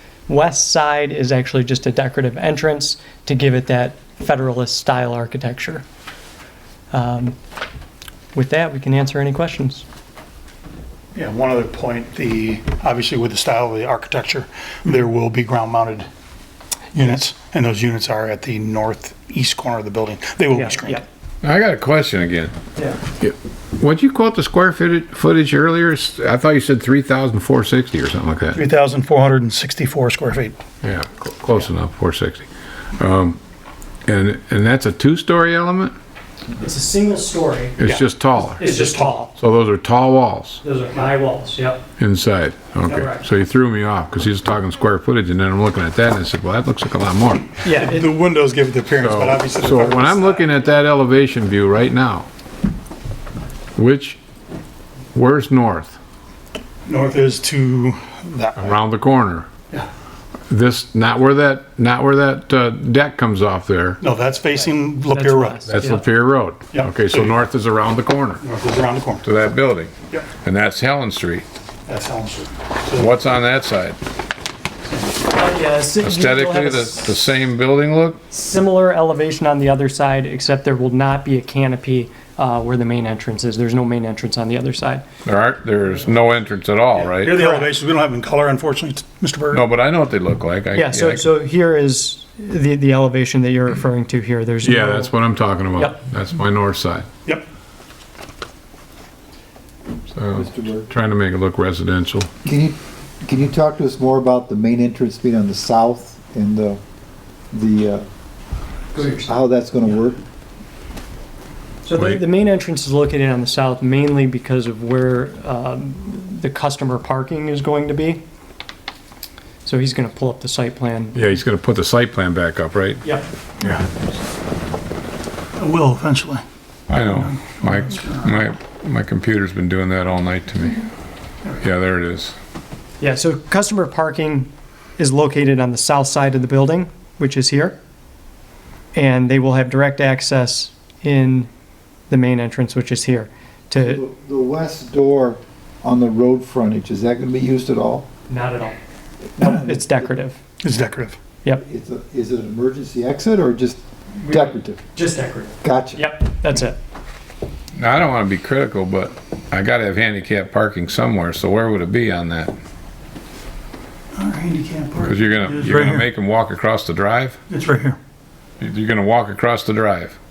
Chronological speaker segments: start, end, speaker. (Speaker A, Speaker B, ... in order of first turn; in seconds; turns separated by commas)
Speaker A: 0.3-5.8, Speaker A: 6.9-7.4, Speaker A: 8.3-9.8, Speaker B: 11.2-16.1, Speaker B: 16.9-21.0, Speaker A: 20.6-21.1, Speaker C: 21.4-22.6, Speaker C: 23.2-28.6, Speaker B: 28.5-30.6, Speaker C: 30.8-33.4, Speaker C: 34.1-35.9, Speaker A: 36.6-37.8, Speaker C: 37.8-38.6, Speaker A: 38.4-39.3, Speaker B: 38.6-39.1, Speaker C: 39.4-40.6, Speaker A: 40.6-41.8, Speaker C: 42.0-47.6, Speaker A: 43.0-43.2, Speaker A: 47.6-48.1, Speaker B: 47.6-50.7, Speaker C: 48.9-52.3, Speaker C: 53.8-54.2, Speaker C: 55.1-56.0, Speaker B: 56.9-58.8, Speaker C: 58.6-59.5, Speaker C: 60.5-64.0, Speaker B: 64.0-65.6, Speaker A: 65.1-66.0, Speaker C: 65.7-68.4, Speaker B: 66.7-67.4, Speaker B: 68.4-69.3, Speaker C: 69.2-71.5, Speaker B: 71.9-73.2, Speaker C: 73.0-74.0, Speaker A: 75.3-77.2, Speaker C: 76.0-78.2, Speaker A: 78.3-85.0, Speaker C: 85.2-87.4, Speaker B: 87.0-89.7, Speaker A: 87.3-87.7, Speaker C: 89.5-91.3, Speaker A: 90.7-95.1, Speaker C: 94.6-97.1, Speaker C: 100.2-102.3, Speaker D: 100.3-100.9, Speaker D: 102.5-106.8, Speaker D: 107.5-108.0, Speaker A: 108.9-109.3, Speaker D: 109.0-110.2, Speaker A: 111.8-118.2, Speaker C: 112.0-112.2, Speaker A: 119.7-121.2, Speaker C: 121.2-123.0, Speaker B: 125.6-126.4, Speaker C: 126.9-130.9, Speaker B: 127.1-128.4, Speaker C: 131.6-132.3, Speaker A: 133.0-137.8, Speaker A: 138.9-141.5, Speaker A: 142.1-144.0, Speaker D: 143.8-148.1, Speaker A: 148.3-148.8, Speaker A: 149.4-150.4, Speaker D: 149.4-150.1, Speaker B: 150.6-151.2, Speaker D: 151.6-154.8, Speaker A: 154.2-156.8, Speaker D: 155.6-156.1, Speaker C: 157.8-162.5, Speaker B: 164.2-166.1, Speaker C: 165.0-167.4, Speaker B: 167.5-168.0, Speaker C: 168.6-170.2